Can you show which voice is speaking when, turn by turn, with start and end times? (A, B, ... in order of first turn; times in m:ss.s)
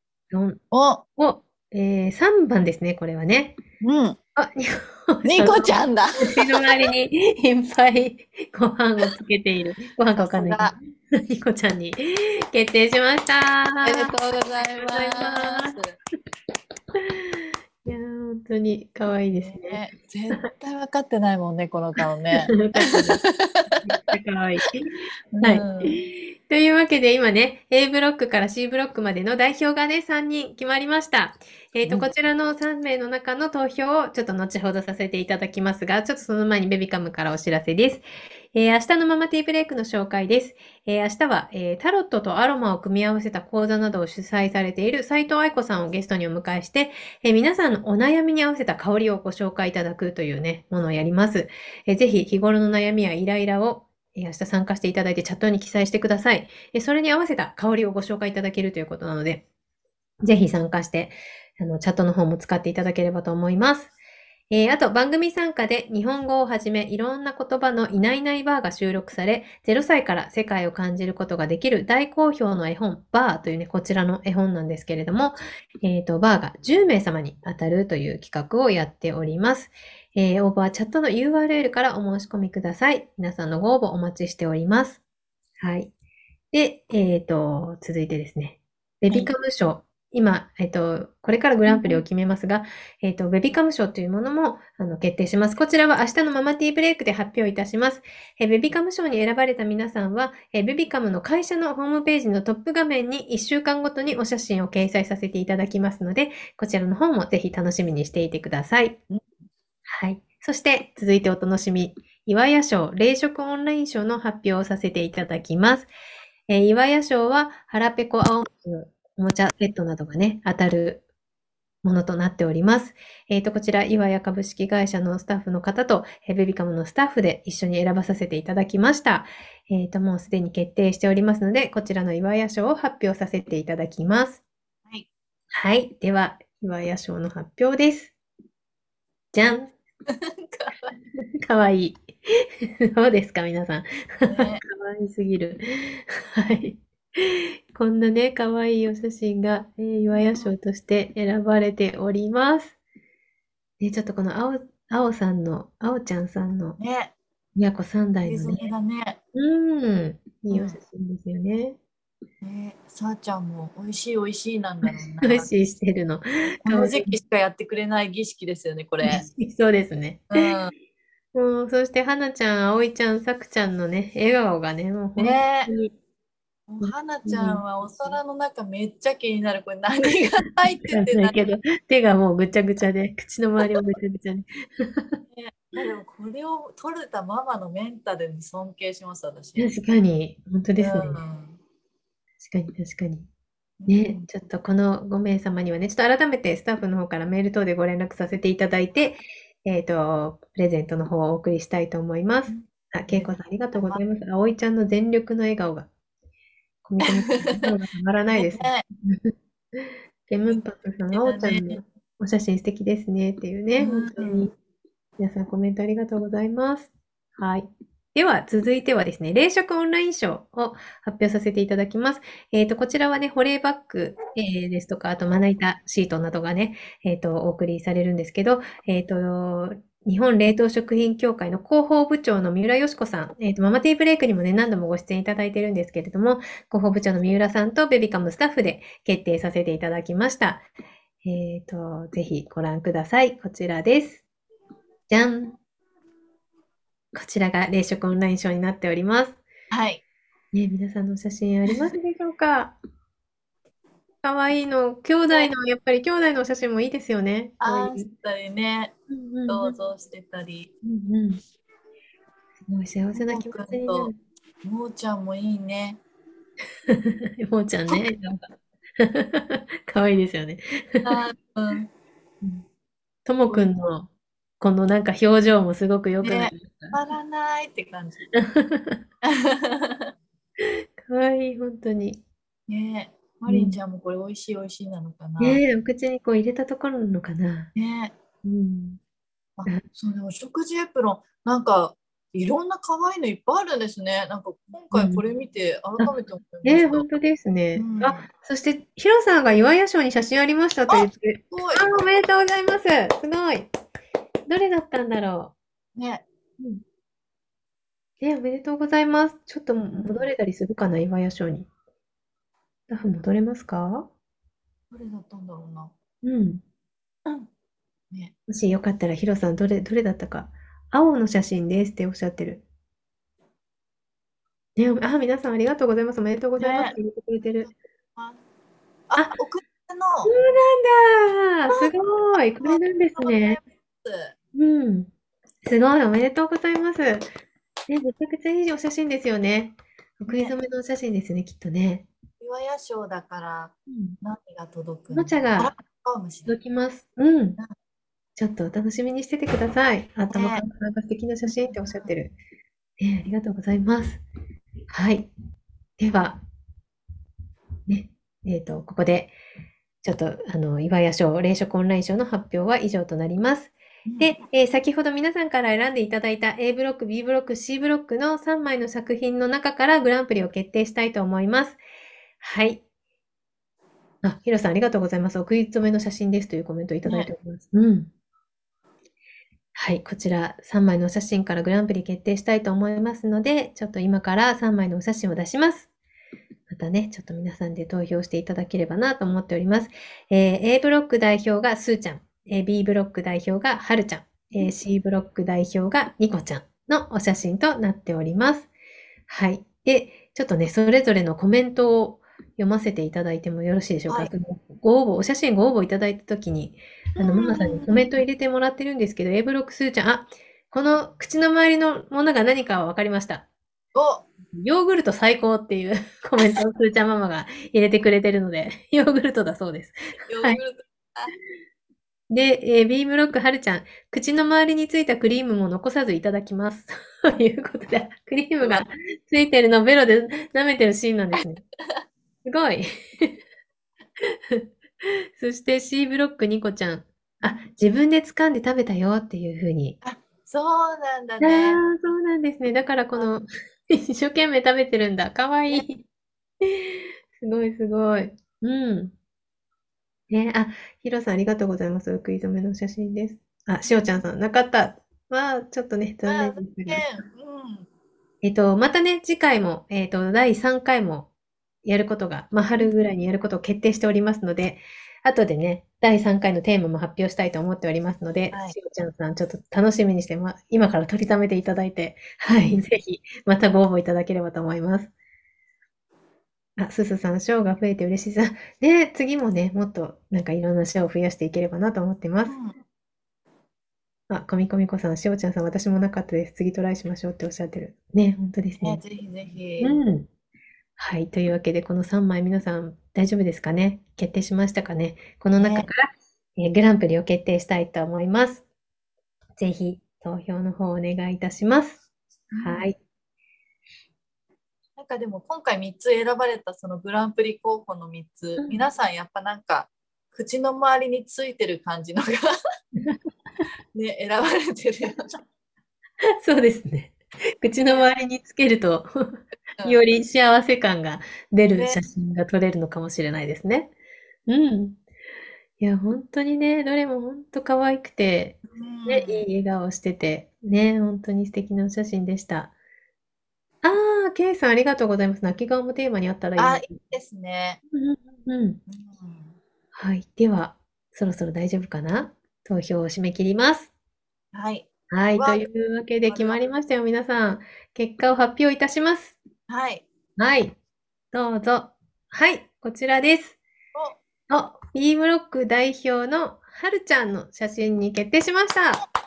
0:00.3-0:00.6 A
0:00.7-0:01.0 B
0:01.2-0:03.6 A
0:03.8-0:04.2 B
0:04.4-0:14.1 A
0:05.2-0:06.6 B
0:10.2-0:10.7 B
0:13.8-0:16.0 B
0:14.8-0:15.8 A
0:17.0-0:20.5 A
0:19.3-0:23.9 B
0:22.3-0:23.2 A
0:23.8-0:59.4 A
0:25.3-0:26.0 B
1:00.2-1:03.9 A
1:04.5-1:25.0 A
1:25.6-1:25.9 A
1:26.5-1:49.0 A
1:31.7-1:32.0 B
1:49.9-1:55.9 A
1:56.5-2:01.0 A
2:01.8-2:14.4 A
2:15.5-2:18.1 A
2:19.3-2:19.7 A
2:20.1-2:20.9 B
2:21.2-2:22.0 A
2:22.8-2:32.8 A
2:24.2-2:24.6 B
2:30.1-2:30.5 B
2:33.8-2:36.8 A
2:36.8-2:37.1 B
2:37.6-2:38.7 A
2:38.2-2:39.2 B
2:39.3-2:41.8 A
2:40.5-2:40.8 B
2:42.4-2:45.5 B
2:44.8-2:47.1 A
2:46.6-2:49.3 B
2:49.0-2:50.4 A
2:50.3-2:50.7 B
2:51.3-2:55.9 A
2:55.2-2:55.7 B
2:56.7-3:01.4 B
2:56.8-2:58.2 A
3:00.9-3:05.2 A
3:05.3-3:09.7 B
3:09.6-3:11.2 A
3:10.8-3:11.6 B
3:12.4-3:13.3 A
3:13.8-3:14.3 B
3:13.9-3:25.9 A
3:22.5-3:24.0 B
3:26.8-3:34.5 A
3:27.0-3:27.7 B
3:28.3-3:28.8 B
3:30.5-3:31.8 B
3:33.8-3:34.5 B
3:35.2-4:00.7 A
4:01.2-4:04.2 A
4:05.1-4:05.6 A
4:07.1-4:09.4 A
4:09.7-4:10.0 B
4:10.5-4:12.8 A
4:14.2-4:18.1 A
4:17.6-4:18.9 B
4:19.1-4:19.8 A
4:19.5-4:20.7 B
4:20.8-4:21.4 A
4:22.6-4:24.2 A
4:23.1-4:24.1 B
4:24.6-4:26.0 B
4:26.9-4:31.2 A
4:31.0-4:31.9 B
4:33.2-4:34.1 A
4:34.6-4:37.0 A
4:36.2-4:38.2 B
4:38.3-4:39.0 A
4:39.2-4:40.1 B
4:40.6-4:42.2 A
4:42.7-4:45.6 B
4:43.5-4:43.8 A
4:45.4-4:47.7 A
4:47.7-4:48.1 B
4:48.4-4:49.0 A
4:49.6-4:57.1 B
4:54.9-4:55.2 A
4:56.0-5:03.7 A
4:57.7-4:58.3 B
5:00.9-5:02.0 B
5:04.5-5:05.5 A
5:06.0-5:06.2 B
5:08.2-5:11.7 A
5:12.9-5:14.1 A
5:14.9-5:15.9 B
5:16.2-5:16.6 A
5:18.5-5:22.6 A
5:24.8-5:27.7 A
5:26.6-5:27.0 B
5:27.6-5:28.4 B
5:29.1-5:30.3 B
5:30.2-5:33.6 A
5:31.7-5:34.3 B
5:34.5-5:35.1 A
5:35.6-5:37.3 A
5:37.9-5:42.1 A
5:40.3-5:40.6 B
5:42.4-5:46.6 B
5:43.9-5:44.2 A
5:45.1-5:45.7 A
5:46.4-5:47.6 A
5:48.4-5:52.3 A
5:50.3-5:50.6 B
5:51.7-5:52.1 B
5:53.0-5:54.2 A
5:54.9-5:55.3 A
5:56.0-5:56.4 A
5:57.9-5:59.4 A
6:00.0-6:11.8 A
6:04.0-6:04.3 B
6:12.4-6:12.8 A
6:14.2-6:18.1 A
6:17.0-6:17.3 B
6:19.7-6:25.9 A
6:26.7-6:38.7 A
6:39.3-6:53.5 A
6:47.2-6:48.1 B
6:53.9-6:54.3 B
6:54.5-7:00.6 A
7:00.3-7:01.3 B
7:02.3-7:11.6 A
7:12.4-7:13.4 A
7:14.2-7:20.0 A
7:20.0-7:21.8 B
7:21.4-7:26.0 A
7:26.6-7:29.1 A
7:30.3-7:37.0 A
7:36.2-7:37.9 B
7:38.4-7:41.3 A
7:41.8-7:55.1 A
7:48.5-7:48.8 B
7:56.8-8:02.6 A
8:02.4-8:02.8 B
8:04.3-8:09.0 A
8:08.8-8:10.0 B
8:09.8-8:10.3 A
8:11.0-8:18.6 A
8:15.6-8:15.9 B
8:19.6-8:22.0 A
8:22.5-8:22.9 B
8:22.6-8:22.9 A
8:25.0-8:32.5 B
8:28.6-8:28.8 A
8:33.9-8:35.3 B
8:36.4-8:43.9 A
8:41.7-8:42.0 B
8:44.5-8:45.0 A
8:45.8-8:52.7 A
8:48.7-8:49.4 B
8:53.8-8:57.0 A
8:56.6-8:57.8 B
8:57.9-8:58.8 A
8:58.9-8:59.5 B
8:59.9-9:03.9 A
9:04.5-9:05.6 B
9:05.1-9:09.4 A
9:06.3-9:06.7 B
9:09.7-9:10.0 B
9:10.4-9:10.8 A
9:11.3-9:13.6 A
9:14.5-9:19.0 A